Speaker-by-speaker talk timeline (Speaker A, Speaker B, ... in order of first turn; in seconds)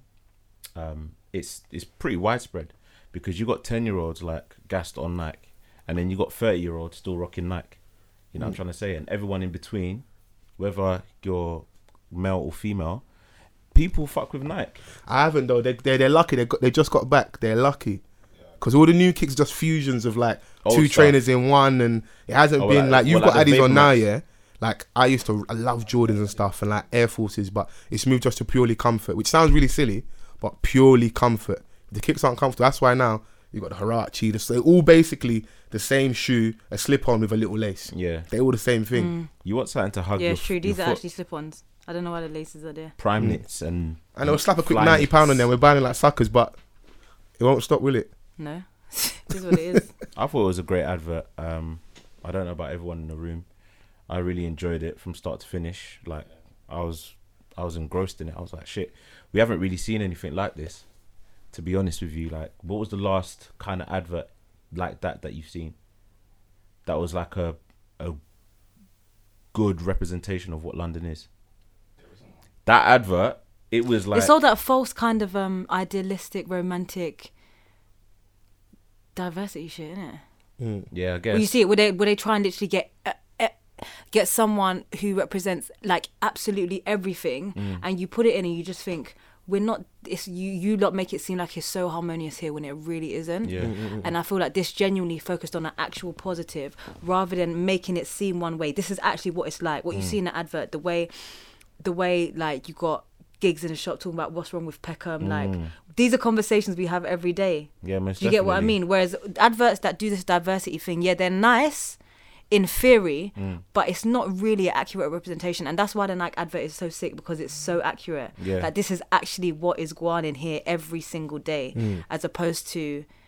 Speaker A: 0.8-7.8, 8.3-10.0, 10.6-13.0, 13.7-14.8, 20.6-21.1, 22.6-24.0, 37.9-38.3, 39.4-41.0, 43.0-45.4, 50.1-53.4, 54.1-60.8, 61.5-65.7, 66.8-68.2, 69.5-71.3, 72.7-74.3, 80.9-81.5, 87.5-87.8, 93.4-93.7, 105.2-105.7, 107.8-108.7, 113.4-113.6, 118.4-118.7
Speaker B: 15.1-18.0, 18.6-39.1, 44.1-46.5, 47.4-48.1, 49.5-49.8, 80.6-80.9, 93.6-94.1, 121.7-122.0
Speaker C: 38.9-39.3, 40.2-42.9, 48.4-49.9, 74.1-77.3, 79.1-80.2, 81.3-112.0, 112.5-123.0